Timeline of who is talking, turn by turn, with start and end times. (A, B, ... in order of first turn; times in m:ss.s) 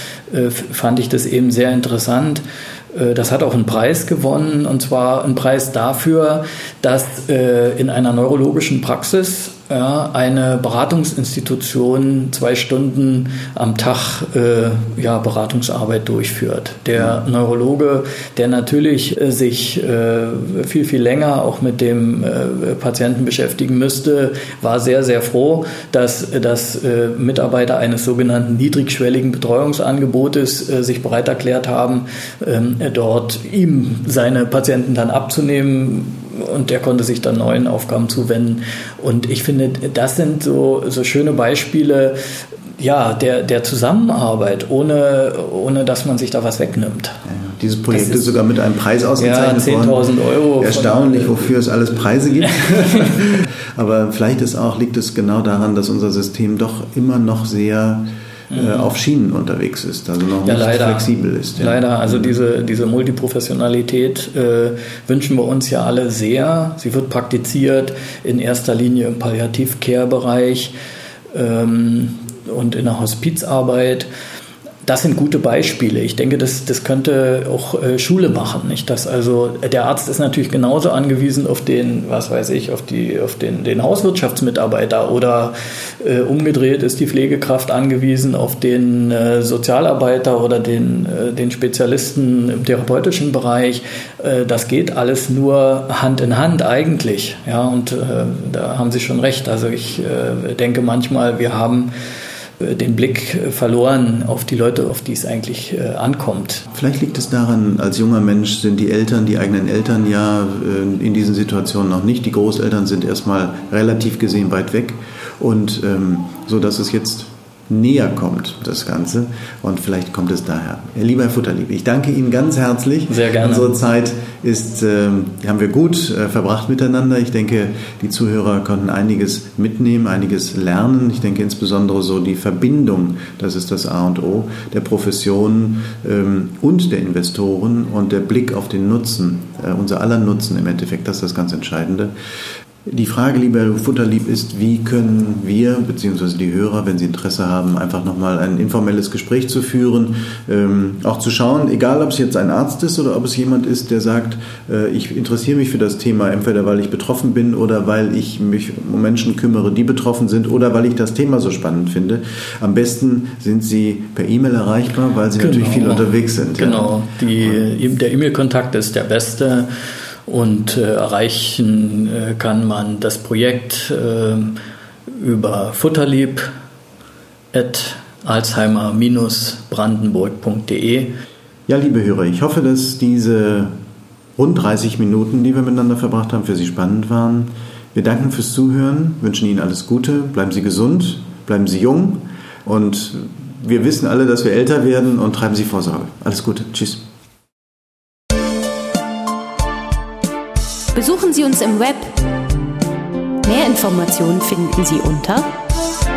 0:00.3-0:42.2 A
0:42.8-0:47.2 A
0:47.3-0:50.0 B
0:47.9-0:48.3 A
0:49.2-0:51.5 A
0:50.6-1:02.4 B
0:52.6-0:53.2 A
0:58.5-0:58.9 A
1:00.4-1:10.7 A
1:11.3-1:14.1 A
1:14.8-1:41.9 A
1:42.6-1:46.6 A
1:46.7-2:22.1 B
2:03.1-2:03.7 A
2:22.9-2:47.6 B
2:45.4-2:49.7 A
2:50.3-2:54.6 A
2:55.1-2:56.5 A
2:57.5-3:01.1 A
3:01.7-3:03.8 B
3:04.4-3:17.0 B
3:20.9-3:22.2 C
3:23.4-3:25.5 C